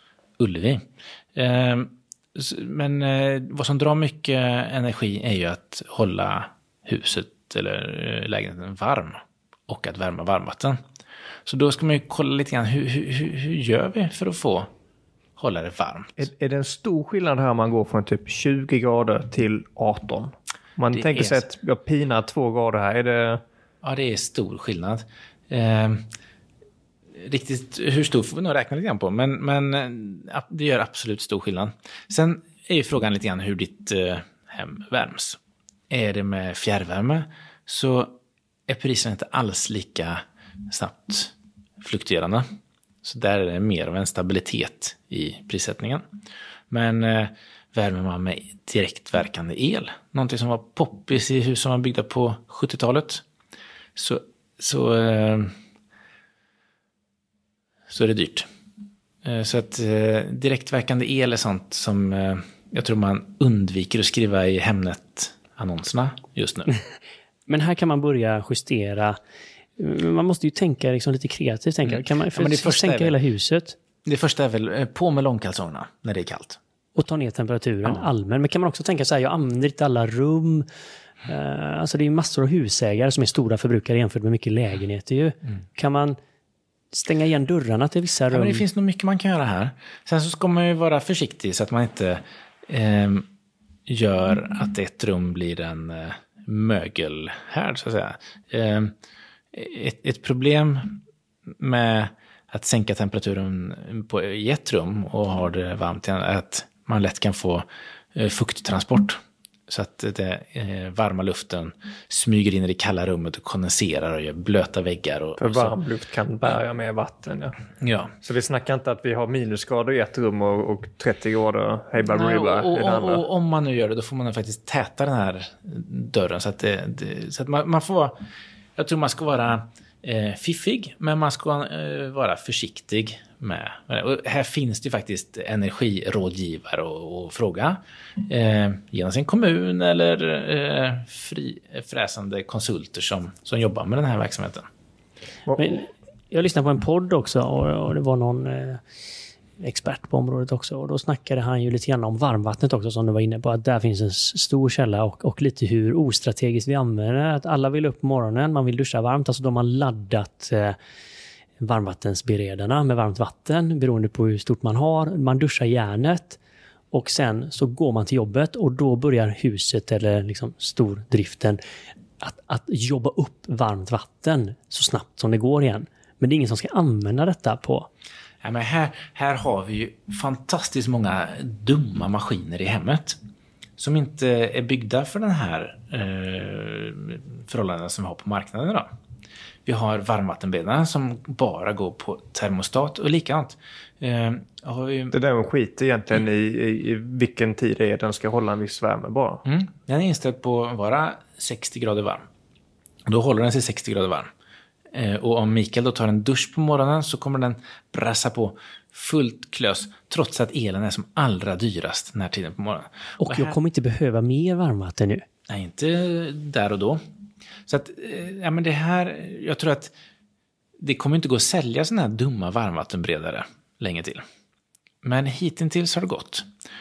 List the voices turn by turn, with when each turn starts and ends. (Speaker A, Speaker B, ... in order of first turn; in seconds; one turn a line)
Speaker A: 0.4-10.8
Speaker A: 11.5-14.7
Speaker A: 15.4-16.3
Speaker B: 16.2-23.4
Speaker A: 20.9-21.4
Speaker A: 23.8-26.1
Speaker A: 27.2-35.4
Speaker A: 35.9-38.2
Speaker A: 38.7-42.5
Speaker A: 43.0-46.0
Speaker A: 46.7-53.2
Speaker A: 54.0-55.5
Speaker A: 57.9-58.5
Speaker A: 59.2-66.7
Speaker C: 67.5-69.2
Speaker C: 69.8-73.8
Speaker A: 71.8-73.2
Speaker A: 74.0-76.6
Speaker C: 77.0-80.7
Speaker C: 81.3-86.2
Speaker C: 86.9-88.6
Speaker A: 88.3-93.3
Speaker A: 93.9-98.9
Speaker A: 99.5-101.0
Speaker A: 101.6-115.8
Speaker B: 115.4-117.5
Speaker A: 117.8-118.1
Speaker B: 118.2-123.2
Speaker A: 122.0-128.2
Speaker A: 128.8-144.7
Speaker C: 145.6-148.8
Speaker C: 149.6-160.8
Speaker C: 161.6-166.4
Speaker C: 166.9-171.6
Speaker C: 172.2-177.9
Speaker A: 178.4-183.2
Speaker A: 183.8-188.9
Speaker A: 189.7-195.2
Speaker B: 195.1-199.4
Speaker A: 199.5-202.3
Speaker A: 203.1-204.3
Speaker A: 204.9-213.6
Speaker C: 213.2-215.2
Speaker A: 215.5-217.0
Speaker A: 217.7-219.9
Speaker A: 220.8-224.2
Speaker A: 225.0-226.5